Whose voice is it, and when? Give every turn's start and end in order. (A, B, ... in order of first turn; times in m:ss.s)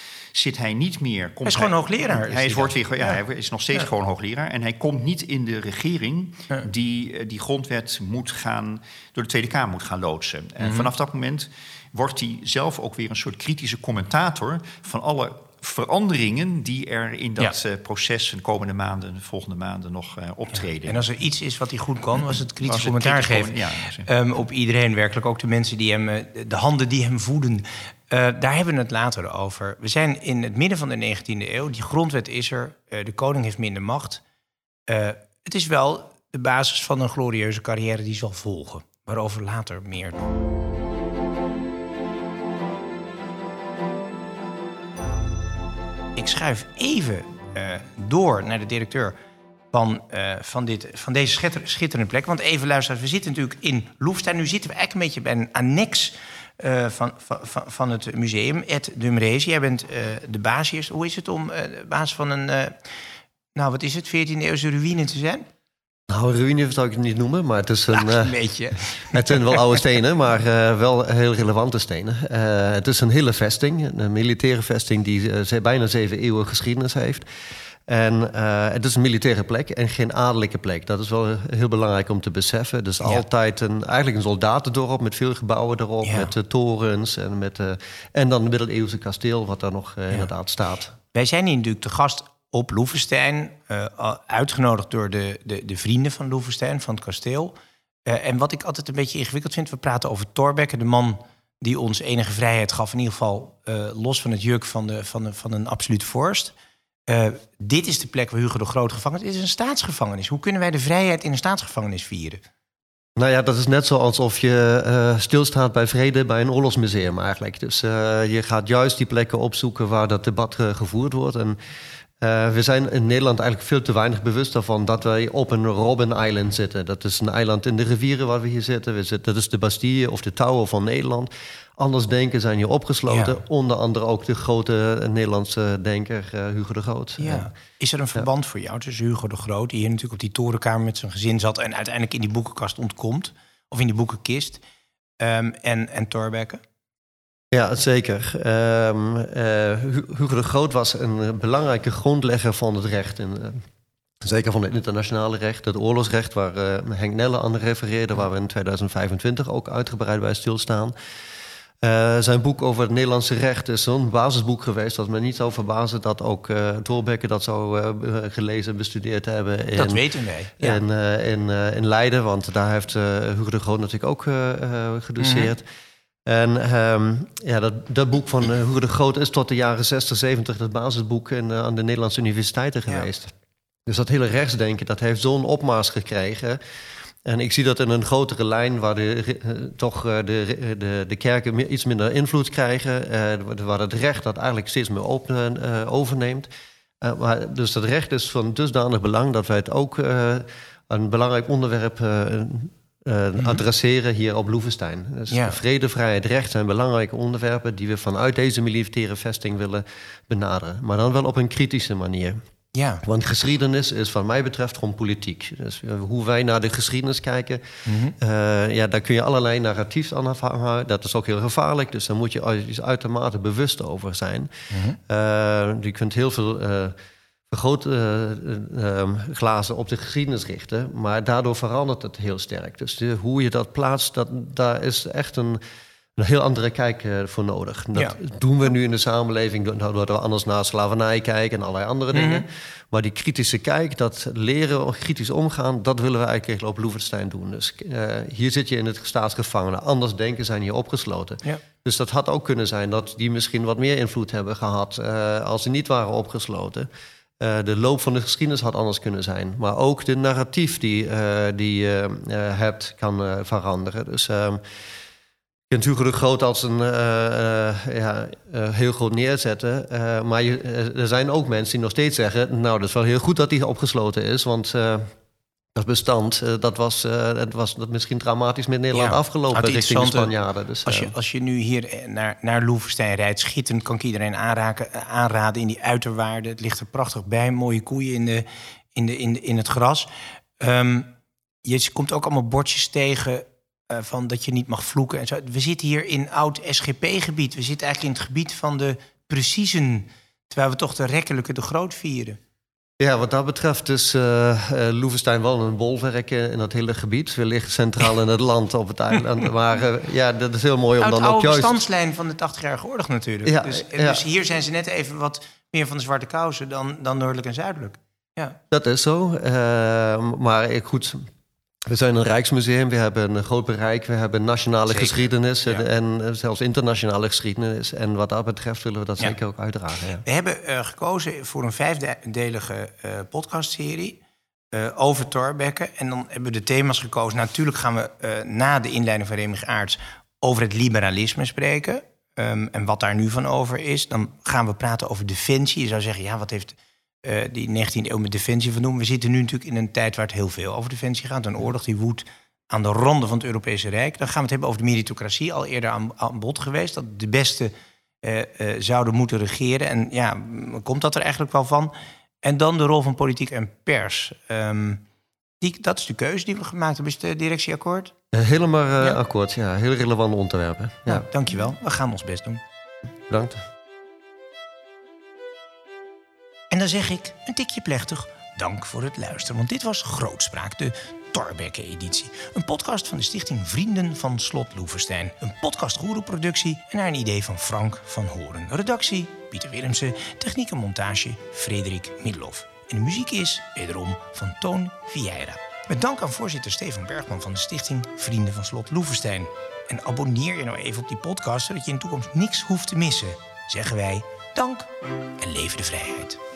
0:00.3-0:21.1 A
0:01.4-0:03.2 B
0:10.6-0:10.9 B
0:20.8-0:34.2 B
0:22.3-0:24.1 A
0:34.9-0:40.2 B
0:46.2-0:49.2 B
0:49.7-1:02.8 B
1:03.6-1:05.4 B
1:06.1-1:08.4 C
1:07.9-1:09.8 B
1:08.9-1:17.3 C
1:17.9-1:30.9 C
1:26.0-1:26.3 B
1:31.1-1:46.5 B
1:47.1-1:52.4 B
1:53.2-2:01.6 C
2:02.2-2:17.5 C
2:13.1-2:13.4 B
2:17.2-2:24.6 B
2:25.2-2:26.6 B
2:27.5-2:33.6 C
2:34.2-2:40.9 C
2:41.8-2:50.0 C
2:49.7-2:50.8 B
2:50.6-2:55.6 C
2:55.2-2:55.5 B
2:56.3-3:03.3 C
3:03.9-3:06.6 C
3:07.2-3:16.5 C
3:17.0-3:32.4 C
3:25.3-3:25.6 B
3:32.7-3:33.0 B
3:33.0-3:37.6 C
3:37.9-3:38.1 B
3:38.1-3:44.5 C
3:44.7-3:45.0 B
3:45.0-3:46.9 C
3:47.5-3:55.6 C
3:56.2-4:16.9 C
4:02.1-4:02.4 B
4:17.4-4:24.6 C
4:25.7-4:35.1 C
4:35.7-4:41.1 C
4:38.9-4:51.1 B
4:51.6-5:02.4 B
5:03.0-5:11.8 C
5:11.0-5:18.6 B
5:13.4-5:14.2 C
5:18.7-5:21.2 C
5:21.9-5:30.2 C
5:24.9-5:25.8 B
5:30.2-5:34.2 B
5:34.7-6:05.0 B
6:05.6-6:08.1 B
6:08.3-6:11.3 C
6:11.1-6:12.6 B
6:13.3-6:13.6 C
6:16.7-6:46.4 B